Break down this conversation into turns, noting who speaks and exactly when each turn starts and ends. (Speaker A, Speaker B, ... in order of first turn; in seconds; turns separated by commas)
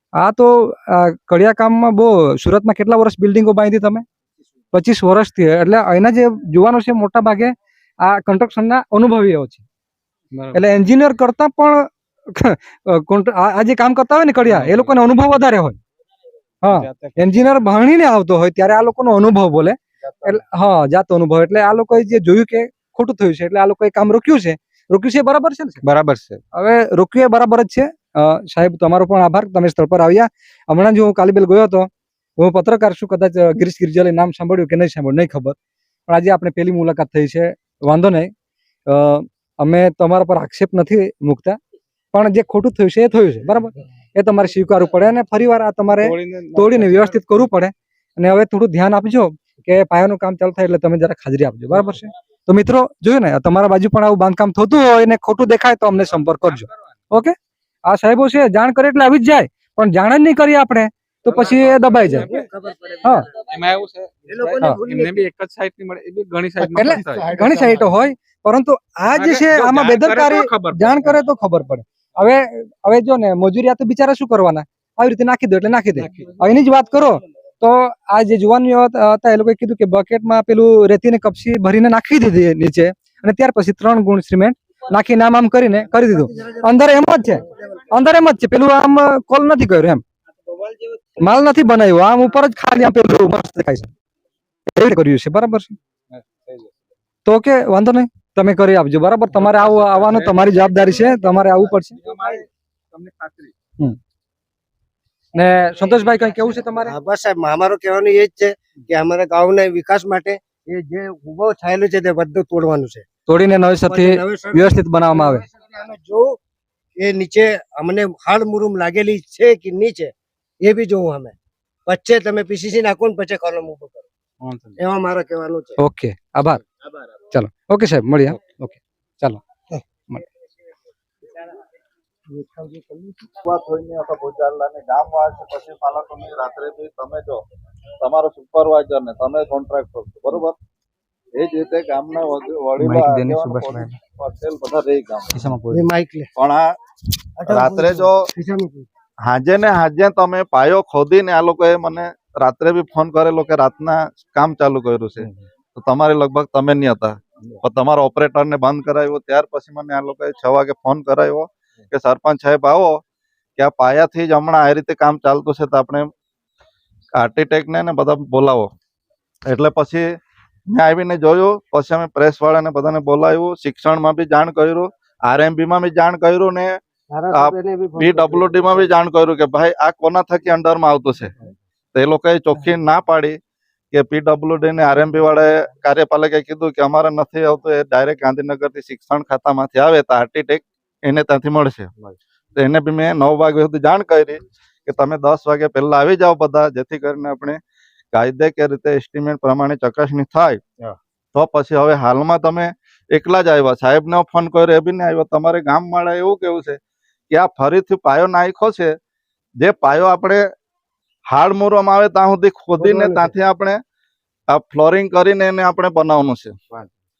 Speaker A: 0.2-4.0, Speaker A: 4.7-9.6, Speaker B: 10.3-10.6, Speaker A: 10.5-15.8, Speaker B: 14.5-15.0, Speaker A: 16.6-25.8, Speaker B: 16.7-17.4, Speaker B: 25.8-26.4, Speaker A: 26.5-35.5, Speaker A: 36.1-38.3, Speaker A: 38.9-41.6, Speaker A: 42.1-57.3, Speaker B: 45.9-47.1, Speaker A: 57.9-62.3, Speaker C: 61.3-63.6, Speaker B: 61.4-62.4, Speaker B: 63.5-67.3, Speaker C: 64.3-65.2, Speaker A: 66.7-90.0, Speaker C: 67.0-67.9, Speaker B: 69.1-71.2, Speaker A: 91.2-93.9, Speaker A: 94.7-95.7, Speaker B: 96.1-96.7, Speaker A: 97.2-102.0, Speaker B: 99.3-101.0, Speaker B: 101.9-103.5, Speaker A: 105.3-106.9, Speaker C: 106.8-113.0, Speaker A: 113.3-115.4, Speaker C: 113.8-116.3, Speaker C: 117.0-121.3, Speaker C: 121.9-124.1, Speaker B: 124.4-124.8, Speaker C: 124.8-125.8, Speaker A: 125.8-126.6, Speaker A: 127.3-129.4, Speaker C: 132.3-133.3, Speaker D: 133.4-137.4, Speaker D: 138.0-140.6, Speaker D: 141.3-145.4, Speaker A: 142.8-143.9, Speaker A: 145.3-145.9, Speaker C: 145.7-146.3, Speaker D: 146.3-146.7, Speaker C: 147.4-148.9, Speaker D: 147.5-148.3, Speaker D: 149.2-163.0, Speaker D: 163.6-166.1, Speaker D: 167.2-168.7, Speaker D: 169.4-170.1, Speaker D: 170.7-176.8, Speaker C: 177.1-178.9, Speaker D: 177.3-181.3, Speaker D: 181.9-183.4, Speaker D: 183.9-191.9, Speaker D: 192.6-197.6, Speaker D: 198.1-200.6, Speaker D: 201.3-206.8, Speaker D: 207.3-208.9, Speaker D: 209.6-210.4, Speaker D: 211.3-213.8, Speaker C: 212.8-213.3, Speaker D: 214.5-216.5